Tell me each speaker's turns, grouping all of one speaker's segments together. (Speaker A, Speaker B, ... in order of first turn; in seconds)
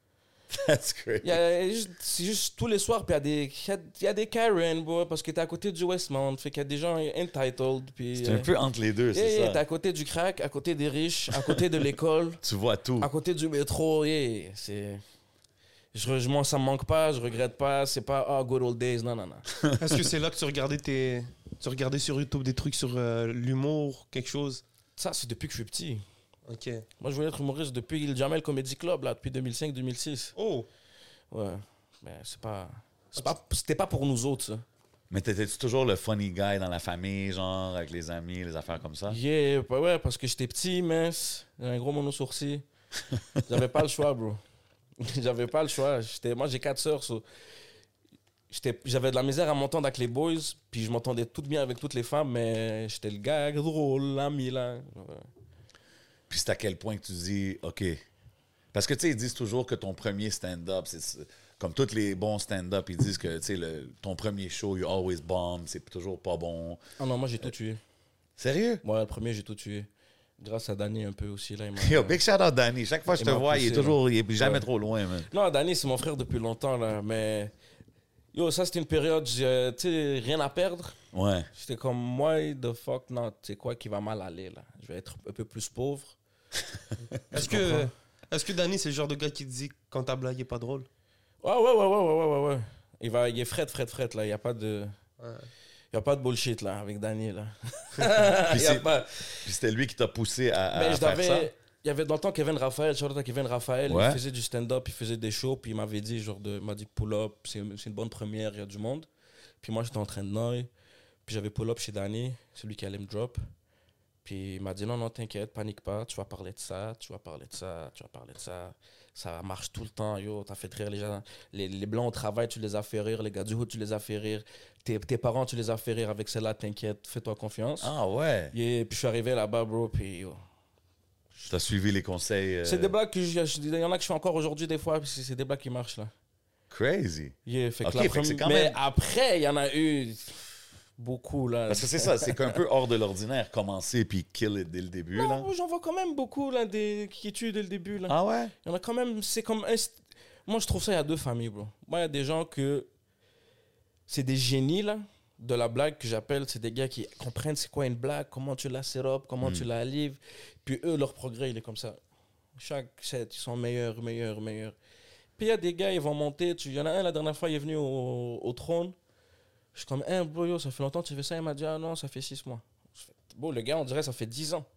Speaker A: 0.5-1.4, 8.2-9.6, 12.4-13.1, 19.6-19.9, 35.1-39.2, 56.3-58.0, 58.7-66.8, 68.4-68.8, 71.8-75.3, 81.1-81.5, 98.4-98.9, 99.4-101.5, 103.9-104.2, 127.8-128.5, 131.5-132.9, 136.7-138.8, 141.7-145.5, 148.1-148.5
Speaker B: 1.2-8.5, 9.1-12.4, 13.0-15.0, 15.9-19.4, 25.0-26.0, 27.0-30.3, 31.3-34.6, 39.1-42.6, 43.4-44.4, 45.0-47.2, 48.5-55.3, 67.0-67.8, 68.8-72.2, 73.1-74.6, 75.3-77.5, 78.3-81.0, 81.5-86.1, 87.3-87.9, 91.4-95.0, 95.9-99.4, 100.7-109.1, 109.6-110.7, 111.2-113.4, 114.2-127.9, 128.5-130.4, 132.6-136.1, 137.4-142.6, 145.1-152.9, 154.1-162.0, 162.6-164.7, 165.4-168.9, 169.7-174.7
Speaker C: 19.8-24.6, 26.5-26.8, 30.4-30.7, 87.3-90.9, 95.2-95.5